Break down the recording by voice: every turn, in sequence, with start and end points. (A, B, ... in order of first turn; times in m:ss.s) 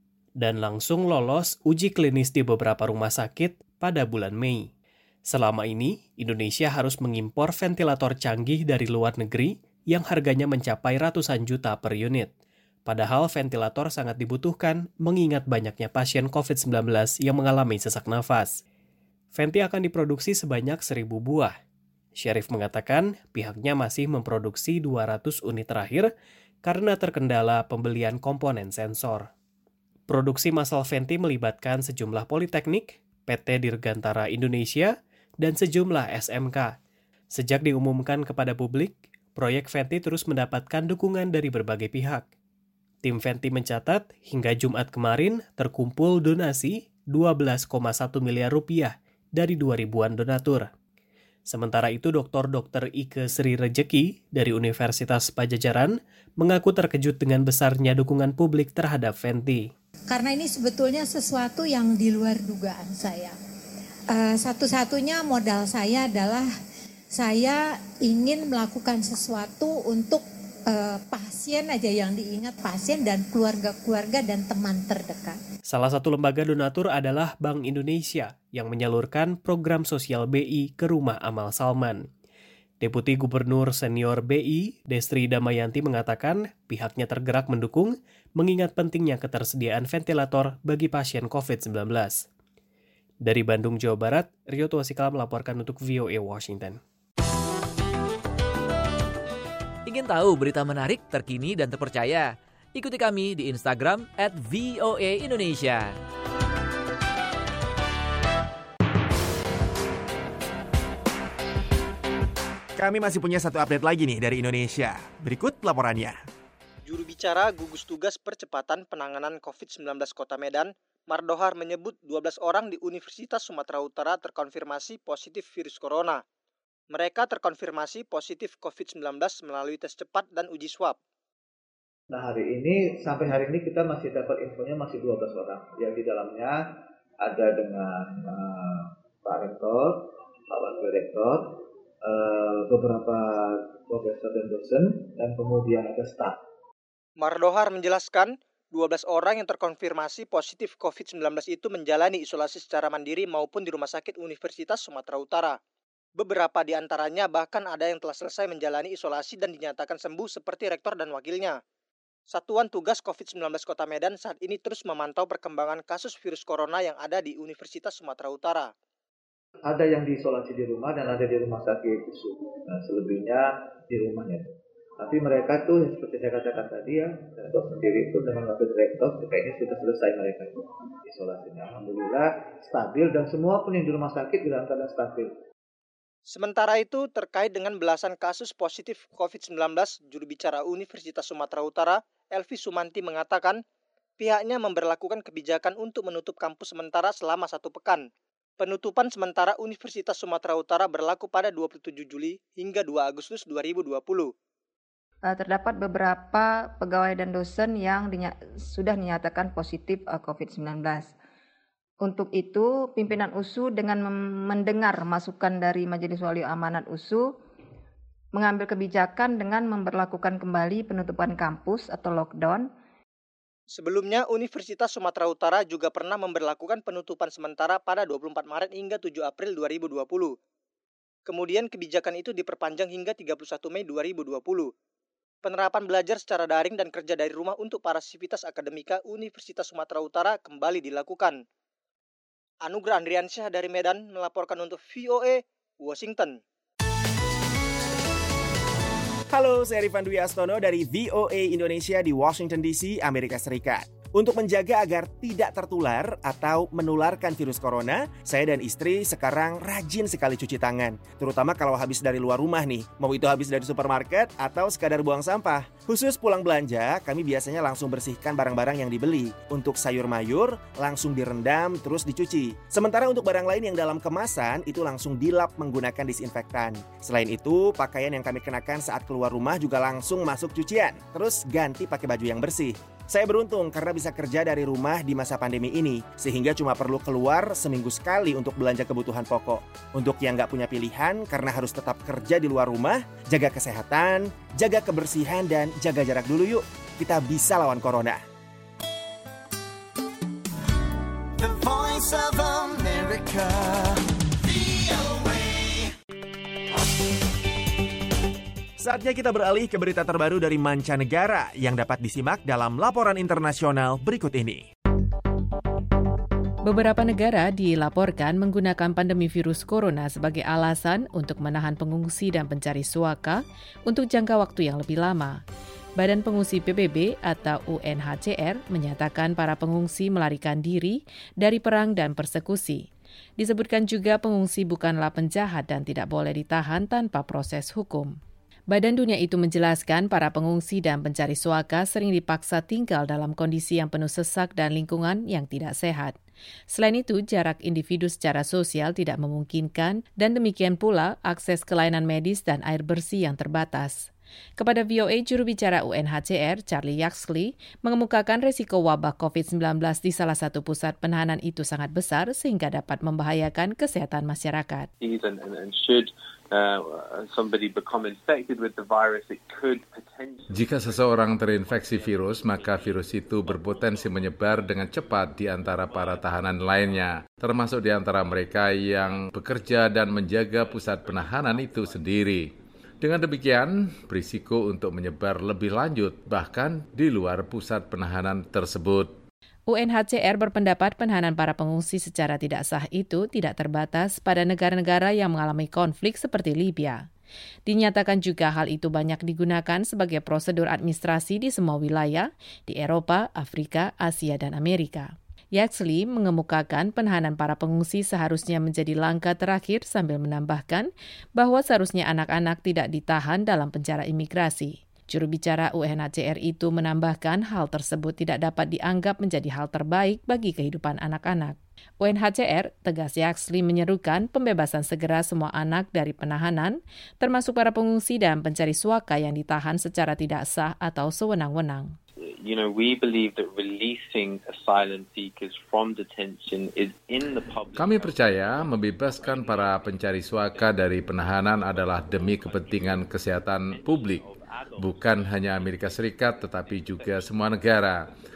0:00.4-0:04.7 A
0:05.3-0:12.3 A
0:12.9-0:18.6 A
0:19.3-0:21.6 A
0:22.2-0:26.1 A
0:26.6-0:29.3 A
0:30.1-0:36.8 A
0:37.3-0:42.3 A
0:43.0-0:50.7 A
0:51.5-0:59.7 A
1:00.1-1:03.4 B
1:04.1-1:06.5 B
1:07.1-1:15.4 B
1:15.7-1:22.1 A
1:22.8-1:32.3 A
1:33.2-1:36.8 A
1:39.9-1:46.0 C
1:52.8-1:56.2 D
1:56.9-2:06.2 E
2:06.9-2:11.0 E
2:12.1-2:16.6 F
2:17.2-2:26.4 F
2:27.2-2:35.6 E
2:36.2-2:41.6 E
2:42.3-2:48.7 E
2:49.7-2:54.5 F
2:55.0-3:05.3 F
3:06.3-3:13.6 E
3:14.2-3:18.1 E
3:18.6-3:24.3 E
3:25.2-3:31.1 G
3:32.0-3:37.3 G
3:38.3-3:42.7 G
3:43.8-3:50.4 E
3:51.3-3:54.7 E
3:55.4-4:01.4 E
4:02.6-4:06.4 E
4:09.3-4:58.2 D
5:08.8-5:14.7 D
5:16.6-5:25.4 H
5:26.0-5:32.9 H
5:33.4-5:38.2 H
5:38.7-5:46.2 H
5:46.7-6:04.9 H
6:05.0-6:11.1 I
6:10.5-6:22.5 J
6:11.6-6:14.1 I
6:15.9-6:16.2 I
6:20.7-6:22.0 I
6:23.0-6:29.2 J
6:29.7-6:37.1 H
6:37.7-7:12.0 H
7:12.3-7:20.7 I
7:17.8-7:24.2 J
7:21.7-7:23.1 I
7:23.7-7:27.4 I
7:24.8-7:28.0 J